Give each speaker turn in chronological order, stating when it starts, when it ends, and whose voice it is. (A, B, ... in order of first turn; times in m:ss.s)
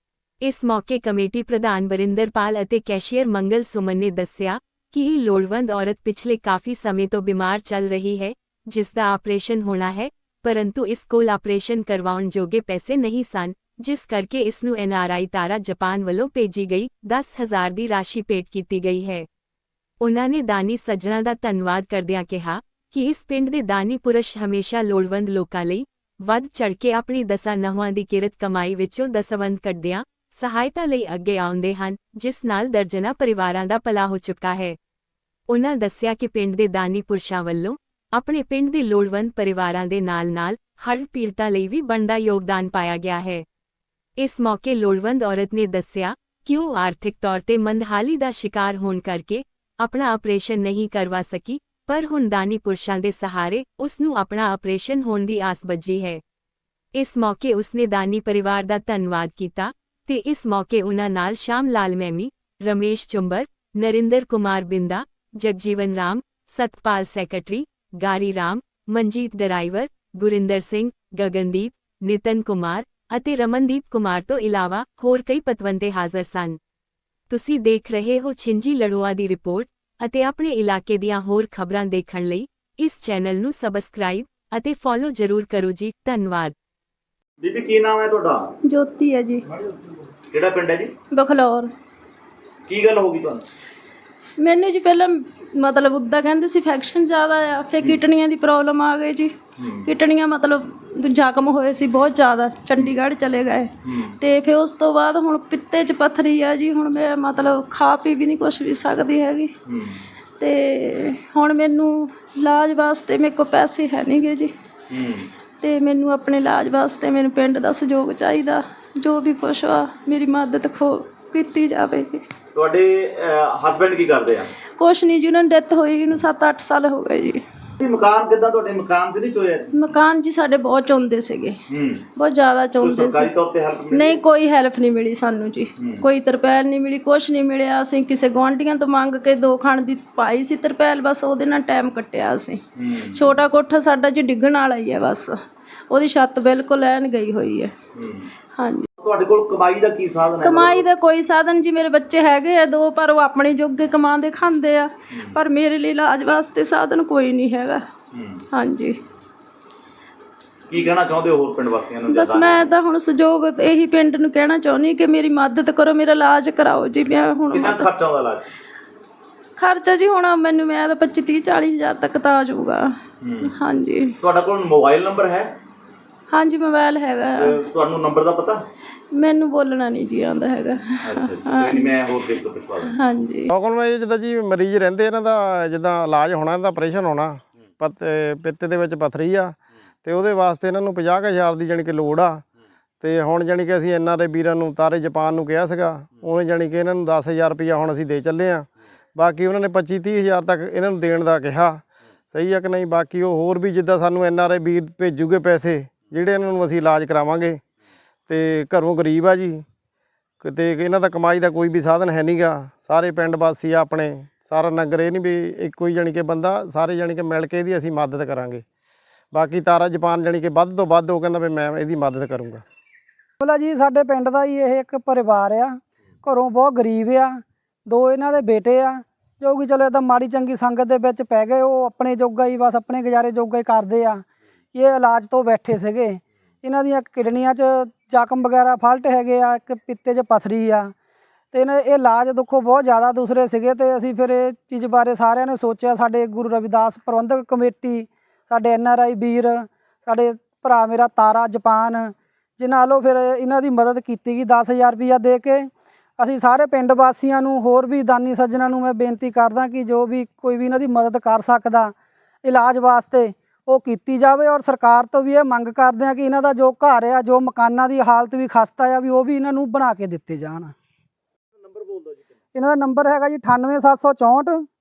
0:00.4-0:19.3 A
0:20.0-0:34.8 A
0:35.5-0:43.4 A
0:44.2-0:56.2 A
0:57.0-1:16.6 A
1:17.3-1:26.6 A
1:27.4-1:28.5 B
1:28.7-1:29.4 C
1:30.3-1:30.9 B
1:31.1-1:31.7 C
1:32.7-1:33.4 B
1:34.4-1:49.5 C
1:39.6-1:39.9 B
1:43.8-1:44.2 B
1:49.7-1:50.0 B
1:50.4-1:54.5 C
1:54.9-1:55.3 B
1:55.6-2:02.2 C
2:02.5-2:04.5 B
2:04.8-2:07.4 C
2:07.8-2:09.7 B
2:09.7-2:11.6 C
2:11.7-2:12.1 B
2:12.2-2:13.3 C
2:12.8-2:14.2 B
2:13.9-2:22.6 C
2:15.8-2:16.1 B
2:22.8-2:23.3 B
2:23.1-2:25.4 C
2:25.9-2:27.7 C
2:28.0-2:28.3 B
2:28.6-2:28.9 C
2:29.0-2:30.8 B
2:30.4-2:37.8 C
2:35.1-2:35.4 B
2:38.1-2:38.4 B
2:38.5-2:39.0 C
2:40.7-2:42.7 B
2:42.1-2:47.9 C
2:47.5-2:48.5 B
2:49.6-2:52.9 C
2:53.2-2:53.6 B
2:53.5-2:54.2 C
2:54.2-2:55.5 B
2:56.3-2:57.6 C
2:57.4-2:58.6 B
2:59.1-3:01.9 C
3:01.0-3:03.0 B
3:02.9-3:03.5 C
3:03.5-3:12.4 D
3:13.0-3:27.6 D
3:28.3-3:29.6 D
3:30.4-3:38.6 D
3:39.3-3:42.6 D
3:43.4-4:00.9 E
4:01.5-4:30.7 E
4:31.6-4:32.3 B
4:32.5-4:34.7 E